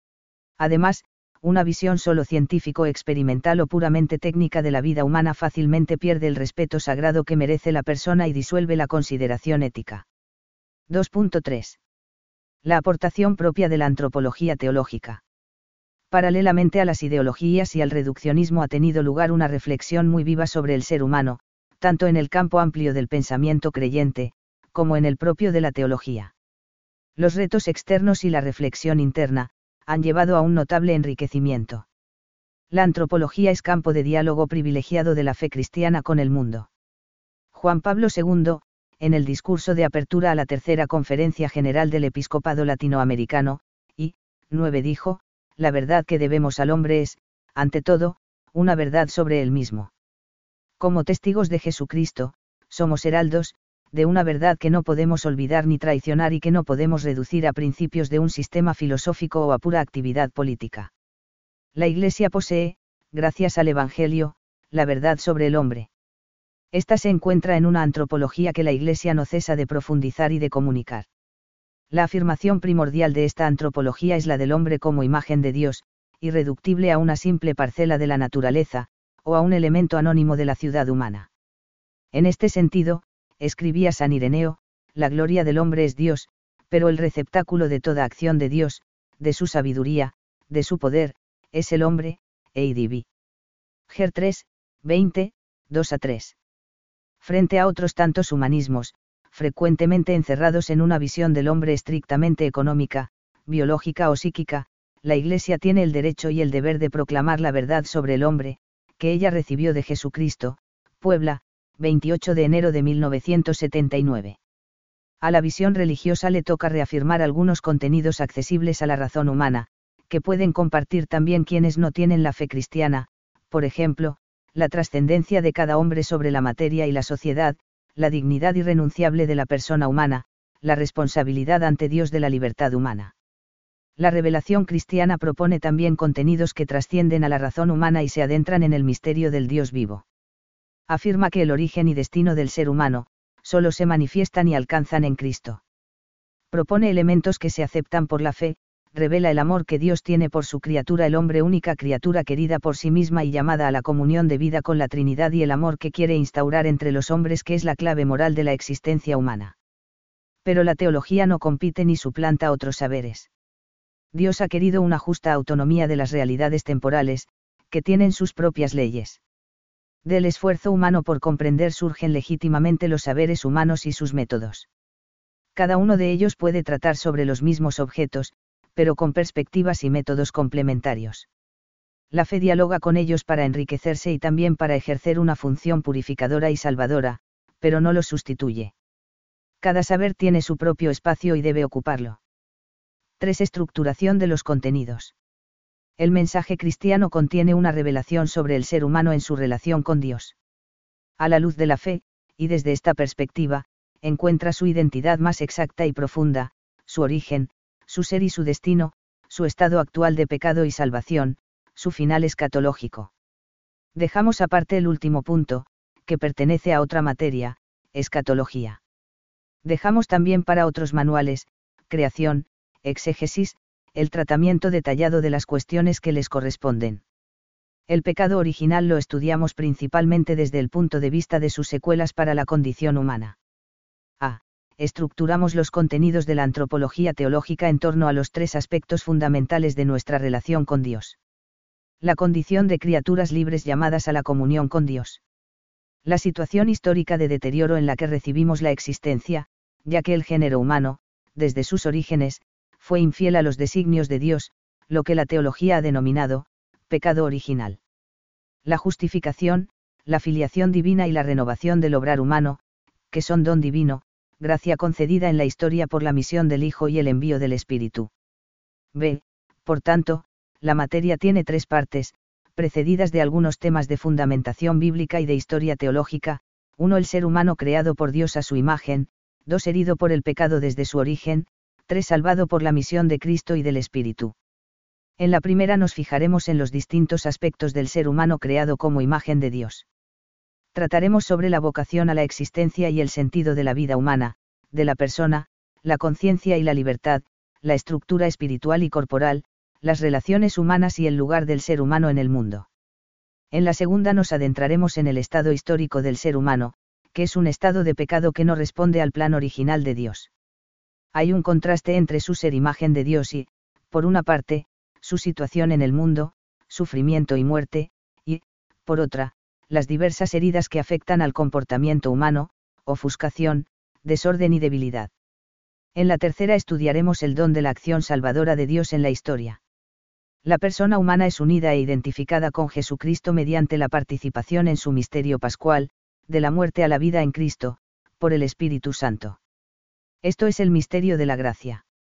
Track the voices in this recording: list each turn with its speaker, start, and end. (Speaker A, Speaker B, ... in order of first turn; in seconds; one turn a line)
Speaker A: 0.6-10.1
Speaker A: 10.9-11.8
Speaker A: 12.6-15.2
Speaker A: 16.1-26.3
Speaker A: 27.2-31.9
Speaker A: 32.7-36.7
Speaker A: 37.5-49.9
Speaker A: 50.8-60.9
Speaker A: 61.8-65.9
Speaker A: 66.7-71.1
Speaker A: 71.9-81.3
Speaker A: 82.1-93.1
Speaker A: 93.9-96.4
Speaker A: 97.2-114.4
Speaker A: 115.2-133.1
Speaker A: 134.0-140.1
Speaker A: 140.9-145.6
Speaker A: 146.5-159.6
Speaker A: 160.4-163.3
Speaker A: 164.1-169.2
Speaker A: 170.1-174.7
Speaker A: 175.6-181.3
Speaker A: 182.1-188.7
Speaker A: 189.6-192.2
Speaker A: 193.2-195.1
Speaker A: 196.0-200.4
Speaker A: 201.2-213.1
Speaker A: 213.9-218.8
Speaker A: 219.7-227.0
Speaker A: 227.9-233.4
Speaker A: 234.2-241.2
Speaker A: 242.0-245.2
Speaker A: 246.1-257.8
Speaker A: 258.6-262.6
Speaker A: 263.1-268.1
Speaker A: 268.9-284.3
Speaker A: 285.2-289.9
Speaker A: 290.7-302.7
Speaker A: 303.5-310.3
Speaker A: 311.1-325.1
Speaker A: 325.9-329.6
Speaker A: 330.4-339.4
Speaker A: 340.2-341.8